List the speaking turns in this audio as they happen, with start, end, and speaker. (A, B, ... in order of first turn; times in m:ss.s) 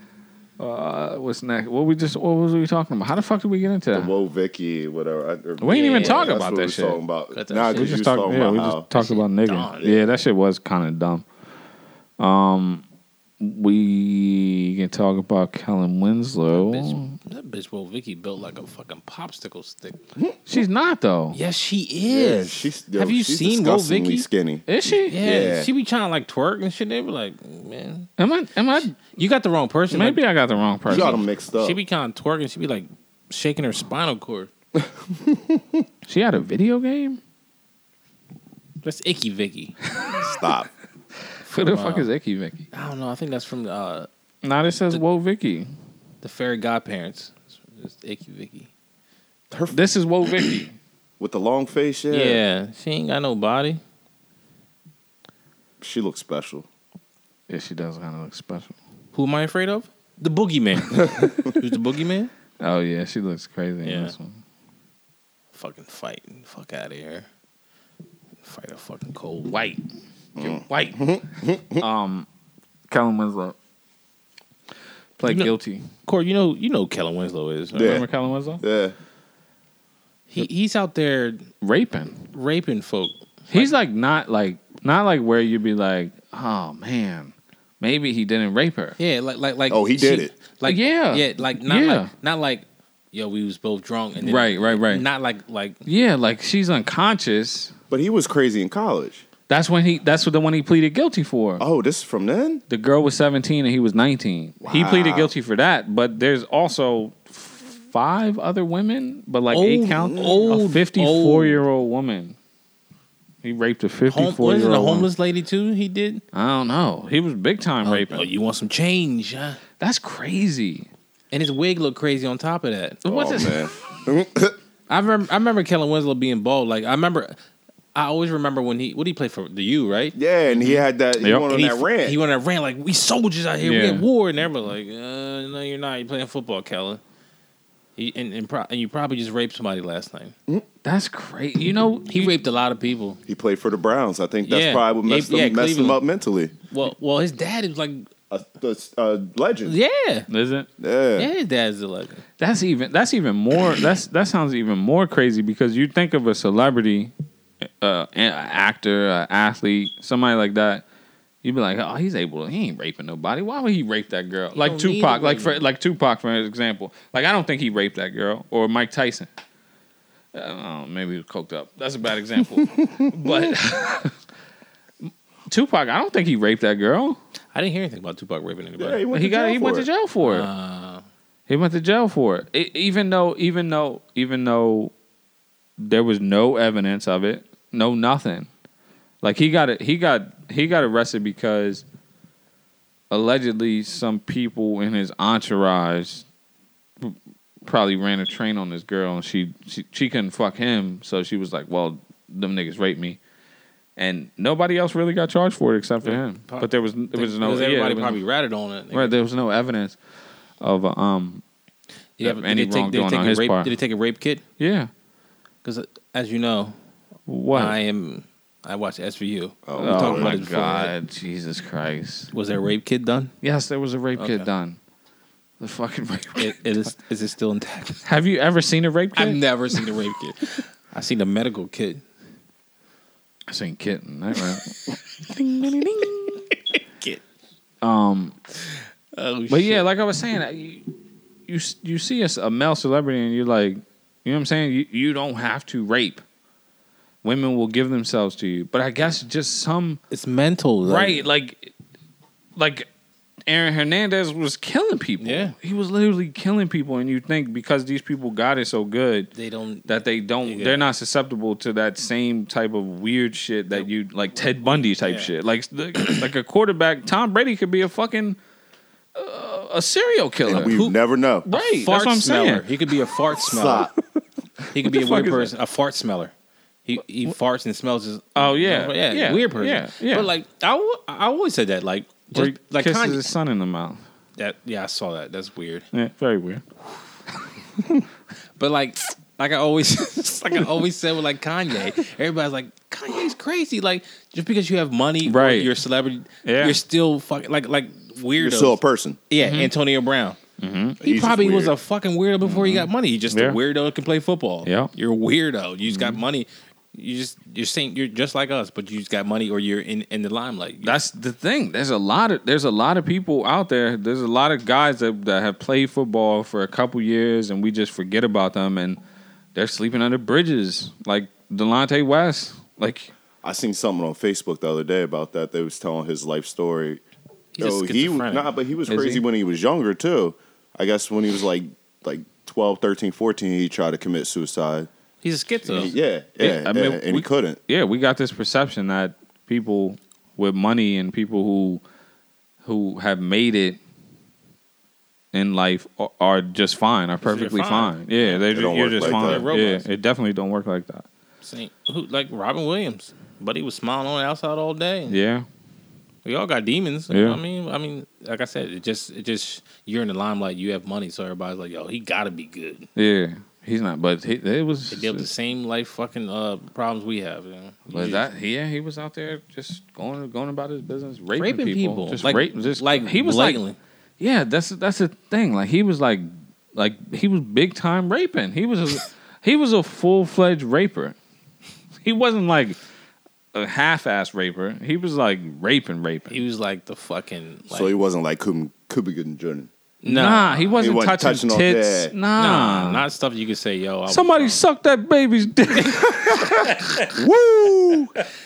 0:00.6-0:04.1 A
0:03.9-0:08.9 B
0:05.6-0:07.0 A
0:05.7-0:06.3 C
0:07.3-0:08.0 C
0:07.7-0:11.2 A
0:08.9-0:10.0 C
0:12.2-0:12.8 A
0:13.4-0:17.2 A
0:16.5-0:20.0 C
0:20.5-0:21.4 A
0:21.3-0:24.3 C
0:22.1-0:25.7 B
0:24.7-0:25.2 A
0:25.0-0:28.1 C
0:28.2-0:29.0 A
0:29.0-0:30.2 C
0:29.9-0:31.2 A
0:30.9-0:31.8 B
0:30.9-0:34.5 C
0:34.8-0:35.8 B
0:36.1-0:37.2 A
0:38.8-0:39.8 C
0:40.2-0:40.7 B
0:41.4-0:42.6 A
0:41.5-0:42.1 C
0:42.7-0:44.1 C
0:44.4-0:45.7 A
0:46.2-0:48.7 C
0:49.5-0:49.8 B
0:49.7-0:50.8 A
0:51.2-0:52.4 B
0:52.1-0:53.8 C
0:55.8-0:56.7 B
0:57.5-0:58.8 A
0:59.1-1:02.3 C
1:02.6-1:04.4 A
1:03.8-1:04.2 C
1:05.5-1:07.3 C
1:08.4-1:09.6 C
1:09.5-1:09.8 A
1:10.4-1:11.8 B
1:10.4-1:11.1 A
1:11.8-1:12.3 A
1:12.9-1:13.6 A
1:15.2-1:15.9 A
1:15.2-1:18.0 C
1:17.7-1:18.1 B
1:17.8-1:18.6 A
1:18.6-1:19.0 B
1:20.3-1:21.5 C
1:21.6-1:22.3 A
1:22.3-1:23.7 C
1:23.5-1:29.0 A
1:29.0-1:35.8 C
1:29.7-1:30.3 B
1:30.6-1:32.1 A
1:34.2-1:35.0 A
1:35.9-1:37.7 A
1:37.9-1:39.2 B
1:39.5-1:41.6 A
1:41.6-1:42.6 B
1:42.7-1:52.4 A
1:44.6-1:45.3 B
1:49.5-1:51.6 C
1:53.4-1:55.1 A
1:54.1-1:56.2 C
1:56.3-1:58.3 A
1:57.8-1:59.6 C
1:59.8-2:00.9 A
2:01.3-2:03.5 C
2:03.0-2:04.6 B
2:03.1-2:03.5 A
2:04.9-2:07.4 C
2:08.0-2:10.8 C
2:10.2-2:12.2 B
2:11.2-2:11.5 A
2:11.5-2:17.0 C
2:13.6-2:14.1 A
2:18.0-2:20.4 C
2:20.8-2:22.4 A
2:22.1-2:23.2 C
2:23.3-2:26.5 B
2:24.4-2:26.0 C
2:26.7-2:28.1 C
2:28.3-2:29.8 B
2:29.6-2:30.3 C
2:30.3-2:30.7 A
2:30.8-2:31.3 B
2:31.2-2:32.2 C
2:32.4-2:37.1 A
2:37.8-2:40.8 A
2:41.4-2:49.3 A
2:44.6-2:45.6 C
2:50.3-2:54.1 A
2:55.5-2:57.2 A
2:57.5-2:59.0 C
2:58.8-2:59.9 B
2:59.1-3:00.5 A
3:00.2-3:01.0 C
3:01.5-3:04.9 A
3:05.8-3:08.5 A
3:09.2-3:11.8 A
3:13.1-3:16.3 A
3:17.0-3:23.2 A
3:24.0-3:28.2 A
3:26.0-3:29.1 C
3:28.9-3:30.0 A
3:30.6-3:31.4 A
3:32.2-3:34.4 C
3:32.2-3:33.8 A
3:34.6-3:34.9 A
3:35.6-3:36.8 C
3:37.3-3:37.8 A
3:37.5-3:40.9 C
3:39.7-3:40.4 B
3:39.8-3:42.3 A
3:42.3-3:43.3 C
3:43.4-3:44.8 A
3:44.2-3:44.5 C
3:45.6-3:46.9 A
3:46.4-3:48.0 C
3:48.0-3:49.4 A
3:49.2-3:52.0 C
3:53.5-3:56.5 A
3:56.5-3:57.2 C
3:57.8-3:58.4 A
3:58.6-3:59.9 C
3:59.5-4:00.9 A
4:01.5-4:06.2 A
4:07.2-4:10.0 A
4:10.1-4:11.2 C
4:10.8-4:11.7 A
4:12.6-4:12.9 A
4:13.5-4:19.3 A
4:15.2-4:15.6 C
4:19.4-4:19.9 C
4:19.9-4:28.4 A
4:20.4-4:20.9 C
4:24.6-4:25.3 C
4:29.2-4:30.8 A
4:30.5-4:31.5 B
4:30.5-4:31.0 C
4:31.5-4:32.7 A
4:31.5-4:33.9 C
4:33.4-4:33.9 B
4:34.7-4:36.3 C
4:34.8-4:35.5 A
4:36.9-4:43.2 C
4:38.4-4:40.3 A
4:42.3-4:44.0 A
4:44.4-4:45.9 C
4:45.9-4:46.6 A
4:48.6-5:00.4 C
4:55.2-4:55.7 A
4:56.4-4:56.8 A
4:58.4-4:59.2 B
4:59.4-4:59.7 A
5:00.6-5:01.0 A
5:01.0-5:01.7 B
5:01.0-5:11.0 C
5:02.4-5:03.6 A
5:04.6-5:04.9 A
5:05.9-5:06.2 A
5:10.8-5:19.0 A
5:19.6-5:23.1 A
5:23.4-5:27.0 B
5:27.6-5:28.5 C
5:27.6-5:34.9 B
5:28.9-5:29.2 A
5:35.2-5:35.9 C
5:35.7-5:37.6 B
5:36.4-5:41.8 A
5:42.6-5:43.8 A
5:45.3-5:51.1 A
5:47.2-5:48.4 C
5:48.5-5:49.5 B
5:49.0-5:49.9 C
5:51.4-5:55.2 C
5:55.1-5:55.5 A
5:56.2-6:02.9 C
5:57.1-5:57.4 A
6:03.0-6:05.3 A
6:04.9-6:08.3 C
6:07.9-6:13.6 A
6:11.4-6:13.8 C
6:14.2-6:21.2 A
6:22.0-6:22.8 A
6:23.5-6:26.4 A
6:26.3-6:27.9 C
6:27.7-6:29.7 B
6:30.0-6:30.8 C
6:30.0-6:33.0 A
6:30.8-6:32.1 B
6:32.4-6:34.6 C
6:34.1-6:37.1 A
6:36.1-6:38.2 B